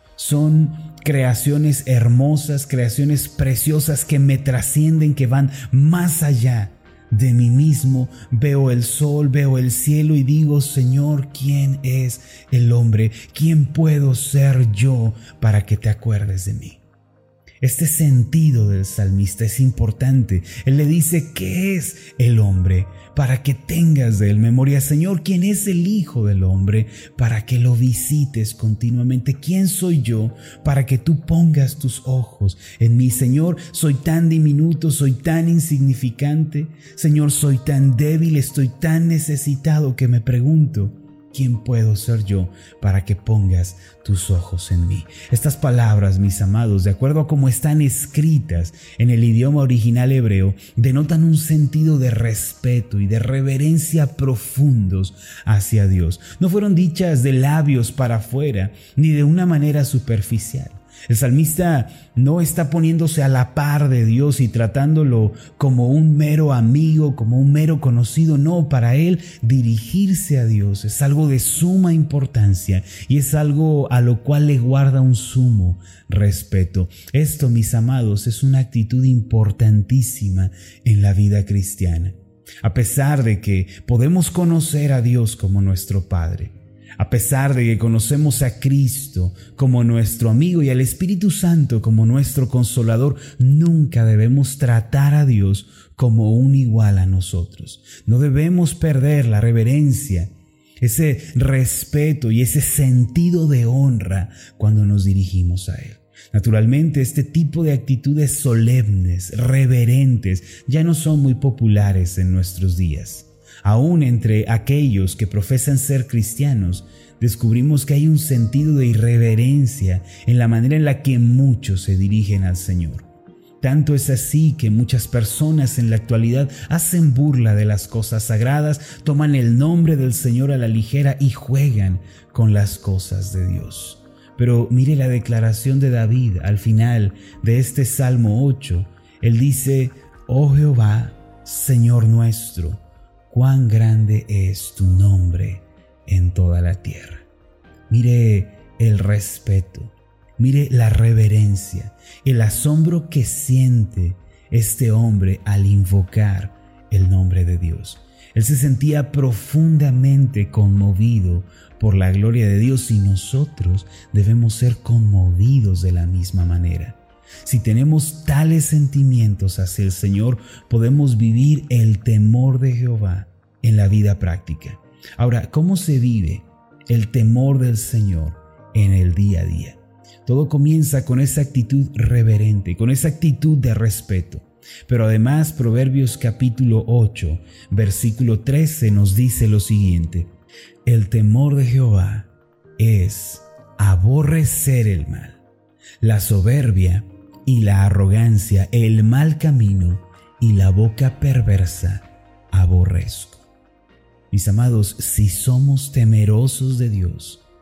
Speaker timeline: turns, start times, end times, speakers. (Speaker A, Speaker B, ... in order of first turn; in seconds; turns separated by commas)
Speaker A: 0.2-16.8, Speaker A: 17.6-123.1, Speaker A: 123.6-147.3, Speaker A: 147.9-190.3, Speaker A: 190.8-195.4, Speaker A: 196.0-203.5, Speaker A: 204.3-207.4